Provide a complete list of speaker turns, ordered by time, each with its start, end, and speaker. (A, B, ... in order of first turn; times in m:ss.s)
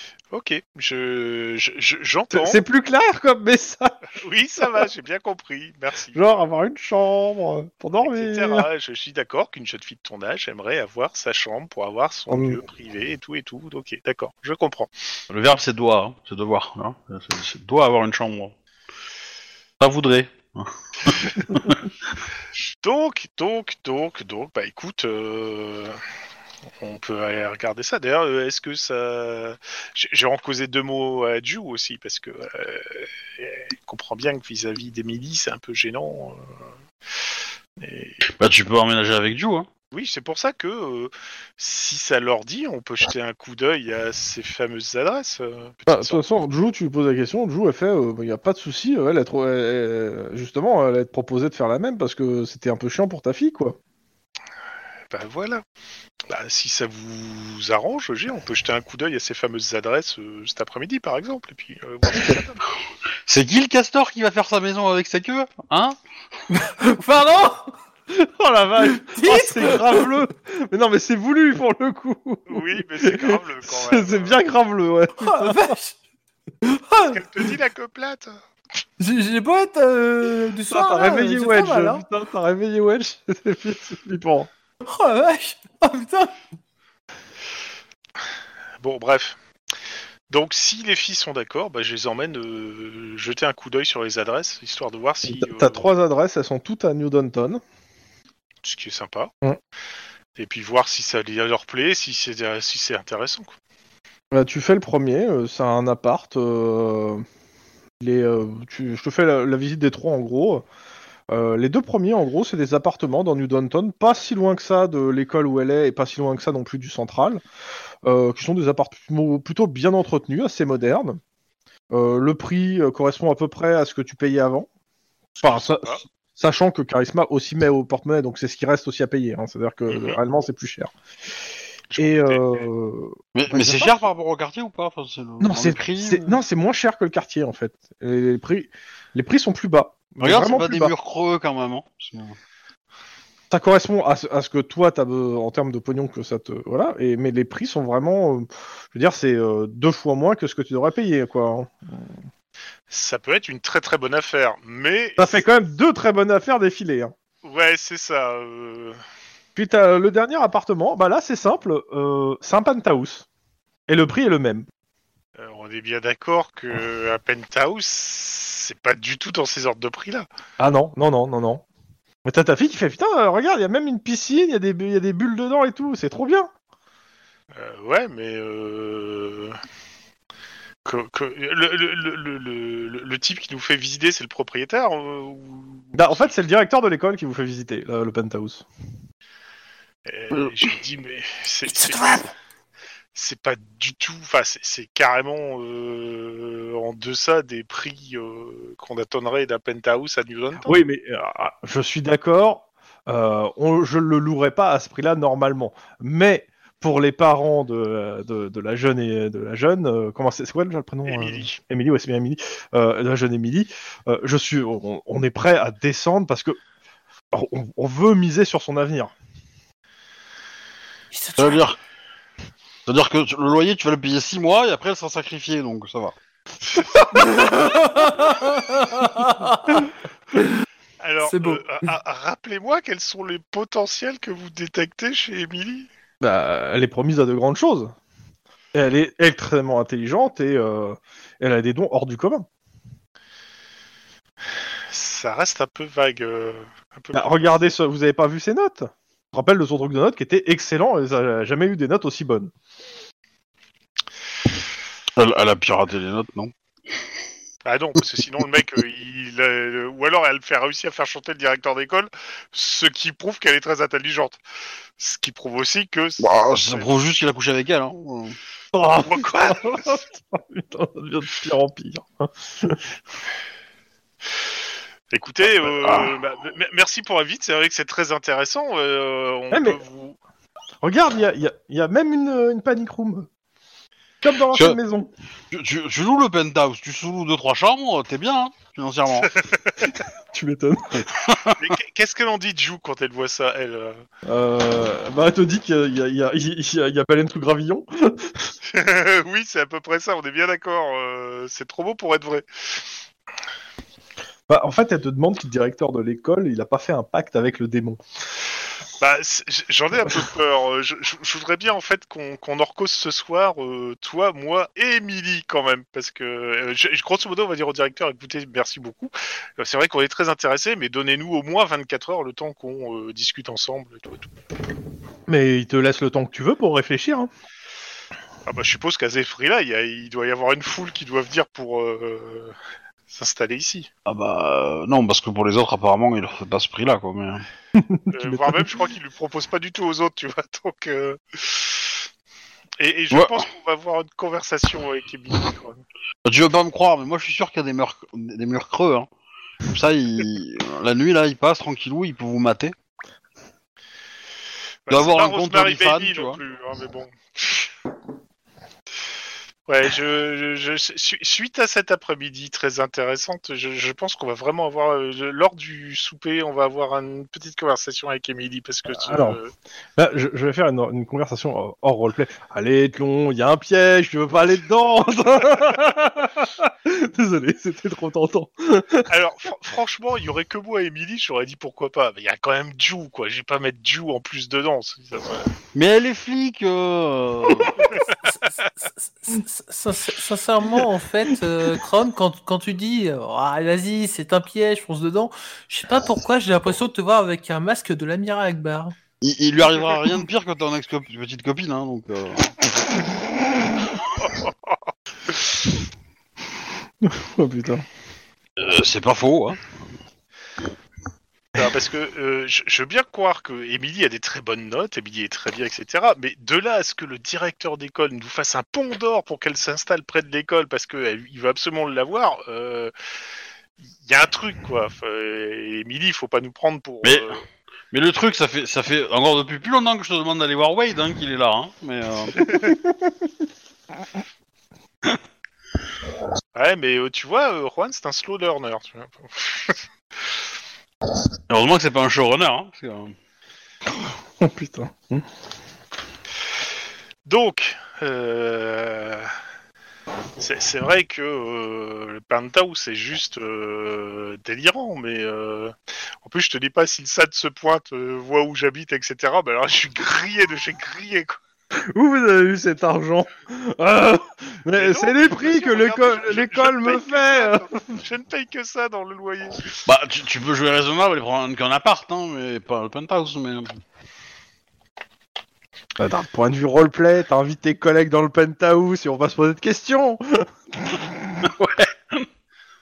0:00.3-0:02.6 A
0:02.3-0:04.0 B
0:04.1-0:06.3 A
0:06.1-0:08.7 B
0:08.0-0:14.9 A
0:12.3-0:12.6 B
0:15.3-0:18.5 C
0:19.8-0:21.8 C
0:22.8-0:26.0 A
0:26.8-0:36.5 A
0:37.8-0:38.2 A
0:38.3-0:39.7 C
0:39.9-0:46.2 A
0:45.9-0:53.8 B
0:55.1-0:55.6 A
0:56.3-1:02.6 A
1:03.3-1:06.0 C
1:06.5-1:07.7 D
1:08.1-1:15.8 B
1:08.9-1:10.0 D
1:12.5-1:14.4 A
1:15.2-1:16.0 D
1:16.6-1:17.5 D
1:17.1-1:18.3 A
1:19.0-1:22.0 D
1:20.7-1:24.5 B
1:24.8-1:26.4 D
1:28.8-1:29.4 A
1:30.3-1:35.9 A
1:35.2-1:37.6 B
1:38.6-1:39.3 A
1:40.4-1:43.5 A
1:44.3-1:47.2 B
1:48.0-1:50.6 B
1:51.3-1:57.4 B
1:58.0-2:01.2 B
2:01.9-2:04.7 B
2:05.4-2:06.0 A
2:05.4-2:10.9 B
2:09.9-2:10.2 A
2:11.9-2:12.6 A
2:12.0-2:14.0 B
2:13.3-2:16.4 C
2:15.4-2:20.9 B
2:20.2-2:22.4 C
2:23.5-2:32.2 B
2:32.9-2:35.4 A
2:35.2-2:37.1 B
2:37.4-2:39.0 A
2:39.6-2:43.2 B
2:43.9-2:44.6 B
2:45.4-2:50.3 A
2:50.6-2:51.6 B
2:52.2-2:56.5 B
2:57.5-2:59.6 A
3:00.8-3:06.3 A
3:05.9-3:08.6 B
3:10.0-3:12.3 A
3:13.1-3:20.8 A
3:20.6-3:36.6 B
3:31.0-3:31.6 A
3:37.3-3:39.1 B
3:41.1-3:41.6 D
3:41.4-3:41.8 C
3:42.8-3:46.1 C
3:47.0-3:49.9 D
3:51.0-3:55.9 A
3:51.2-3:51.7 D
3:56.2-3:57.9 B
3:58.7-4:02.5 B
4:04.9-4:07.6 A
4:07.1-4:12.5 B
4:15.2-4:16.5 C
4:17.6-4:24.4 A
4:25.0-4:26.9 A
4:26.2-4:28.4 C
4:28.7-4:32.8 B
4:29.0-4:30.0 A
4:35.1-4:40.2 A
4:35.8-4:36.1 C
4:39.5-4:39.8 B
4:40.8-4:43.3 B
4:44.2-4:45.1 B
4:44.5-4:44.8 C
4:45.5-4:49.3 C
4:49.3-4:49.9 A
4:50.3-4:51.1 B
4:51.0-4:51.6 C
4:51.6-4:54.0 A
4:54.2-4:58.5 B
4:58.6-5:02.9 A
5:04.5-5:08.0 B
5:09.0-5:24.3 A
5:25.3-5:27.3 B
5:28.4-5:32.5 A
5:33.1-5:33.9 A
5:34.0-5:37.5 C
5:37.8-5:38.7 B
5:38.1-5:42.0 A
5:42.8-5:45.8 A
5:43.1-5:43.4 C
5:46.2-5:49.1 C
5:49.6-5:52.7 C
5:54.9-5:57.7 A
5:54.9-5:56.4 C
5:59.7-6:09.5 A
6:09.0-6:09.4 B
6:10.0-6:19.1 B
6:19.1-6:25.5 A
6:25.7-6:27.9 C
6:28.2-6:39.0 D
6:39.2-6:42.7 C
6:44.2-6:44.5 A
6:47.0-6:47.8 B
6:48.6-6:49.8 C
6:51.6-7:02.9 A
7:04.0-7:07.4 A
7:07.0-7:07.4 C
7:07.9-7:12.4 C
7:12.4-7:12.7 A
7:16.5-7:19.8 A
7:21.5-7:23.1 C
7:24.0-7:25.2 B
7:27.2-7:29.3 A
7:30.4-7:41.4 A
7:41.9-7:47.8 B
7:44.7-7:49.6 A
7:49.8-7:53.7 C
7:56.0-8:01.5 B
8:01.4-8:02.3 C